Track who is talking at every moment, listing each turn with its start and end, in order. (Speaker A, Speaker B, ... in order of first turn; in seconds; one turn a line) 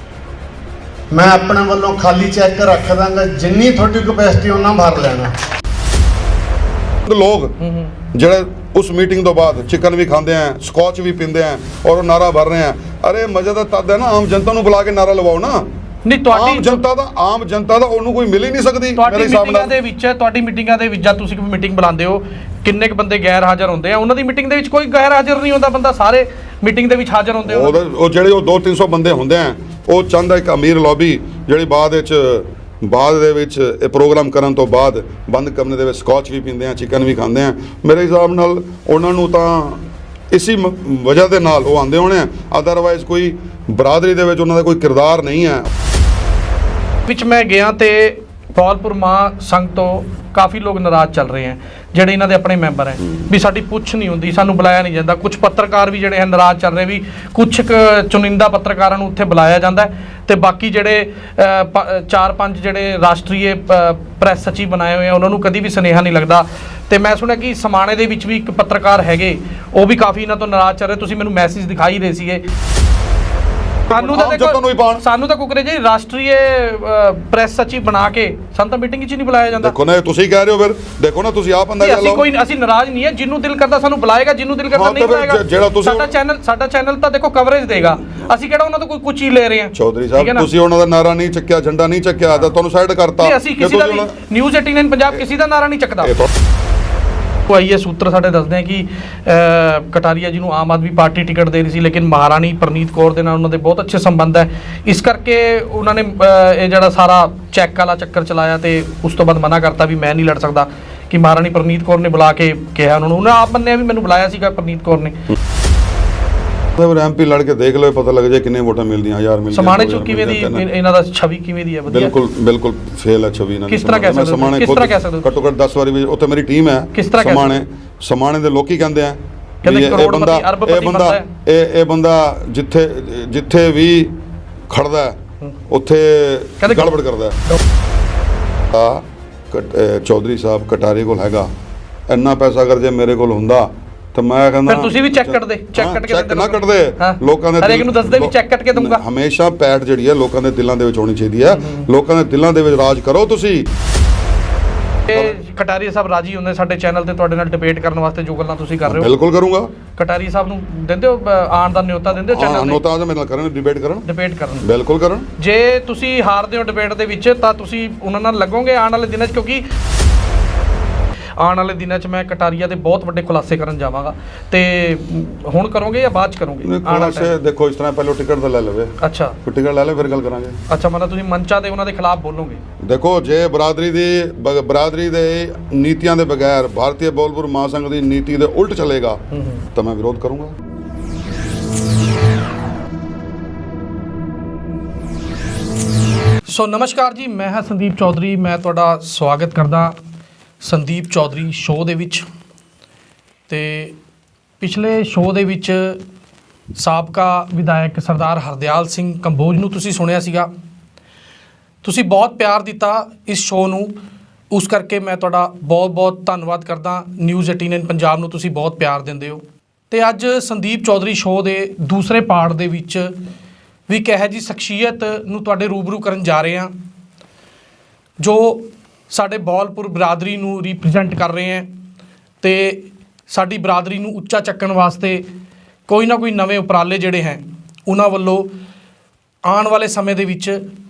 Speaker A: 1.1-5.3
Speaker B: 7.0-7.5
Speaker C: 7.6-7.9
Speaker B: 8.1-15.7
Speaker C: 16.0-16.8
Speaker B: 16.3-19.7
Speaker C: 19.0-27.8
Speaker B: 27.4-45.7
Speaker C: 47.1-72.4
Speaker C: 73.9-79.7
Speaker B: 73.9-75.0
Speaker B: 79.5-82.2
Speaker C: 81.8-90.5
Speaker B: 84.7-86.1
Speaker B: 89.7-94.1
Speaker C: 93.2-96.1
Speaker B: 96.0-96.3
Speaker C: 97.5-115.2
Speaker B: 116.8-120.7
Speaker C: 119.5-122.1
Speaker B: 121.9-137.4
Speaker C: 123.7-125.3
Speaker C: 126.9-127.6
Speaker C: 129.6-131.3
Speaker C: 136.6-136.9
Speaker B: 138.7-141.5
Speaker B: 142.1-153.7
Speaker C: 144.7-149.0
Speaker C: 151.5-151.9
Speaker C: 155.1-159.1
Speaker B: 155.1-155.3
Speaker B: 158.8-159.7
Speaker C: 159.9-162.8
Speaker B: 162.3-164.1
Speaker C: 164.1-164.7
Speaker B: 164.6-165.3
Speaker C: 165.4-169.7
Speaker C: 171.4-177.3
Speaker B: 176.6-180.6
Speaker C: 179.0-179.4
Speaker C: 180.7-182.6
Speaker B: 182.8-189.2
Speaker C: 189.3-189.6
Speaker B: 189.7-190.5
Speaker C: 196.5-199.9
Speaker C: 200.6-202.3
Speaker C: 203.5-203.9
Speaker C: 204.6-206.0
Speaker C: 206.8-210.5
Speaker C: 211.8-213.9
Speaker C: 214.5-223.1
Speaker C: 223.9-226.7
Speaker C: 228.2-231.7
Speaker C: 232.4-235.2
Speaker C: 235.9-238.5
Speaker C: 239.5-240.6